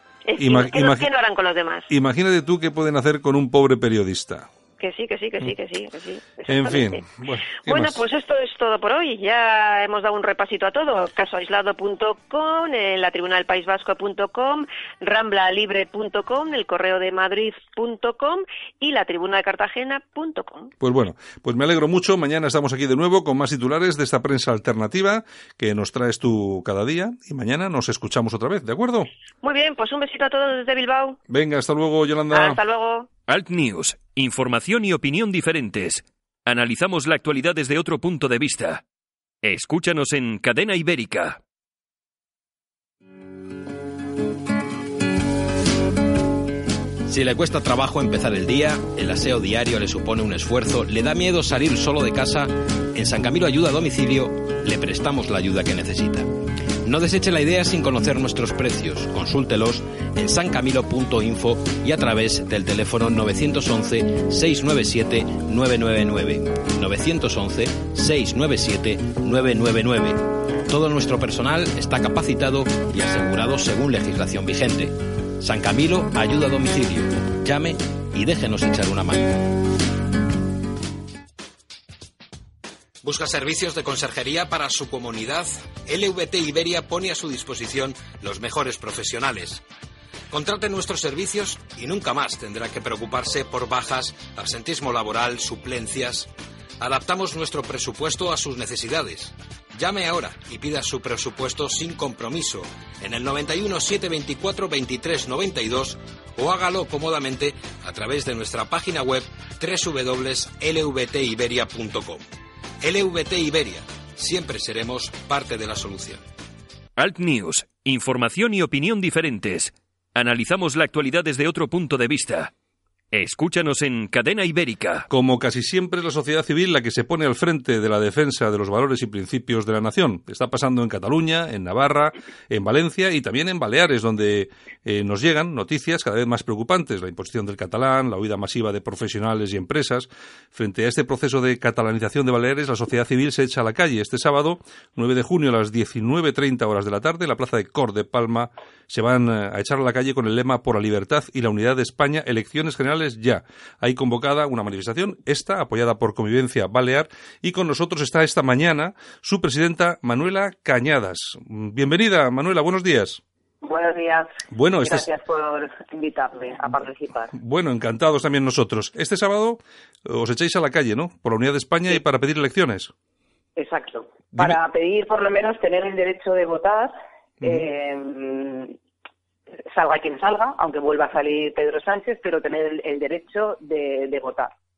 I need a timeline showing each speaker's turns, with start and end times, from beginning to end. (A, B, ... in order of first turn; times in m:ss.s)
0:00.3-0:01.9 A
0:00.4-0:01.1 B
0:01.9-0:04.5 B
0:04.8-0:07.0 A
0:06.5-0:08.0 B
0:07.6-0:20.7 A
0:20.8-0:29.1 B
0:29.4-0:31.2 A
0:31.3-0:32.6 B
0:32.3-0:33.1 A
0:33.3-0:38.8 C
0:39.4-0:41.4 C
0:47.1-0:56.3 D
0:56.8-1:19.4 D
1:23.0-1:29.6 D
1:30.3-1:52.2 D
1:52.8-1:56.2 D
1:57.0-2:02.5 C
2:03.1-2:05.1 C
2:05.1-2:43.2 B
2:43.6-2:47.3 E
2:44.5-2:45.1 B
2:47.3-2:52.9 B
2:53.6-2:58.8 E
2:57.4-2:57.7 B
2:59.7-3:04.5 E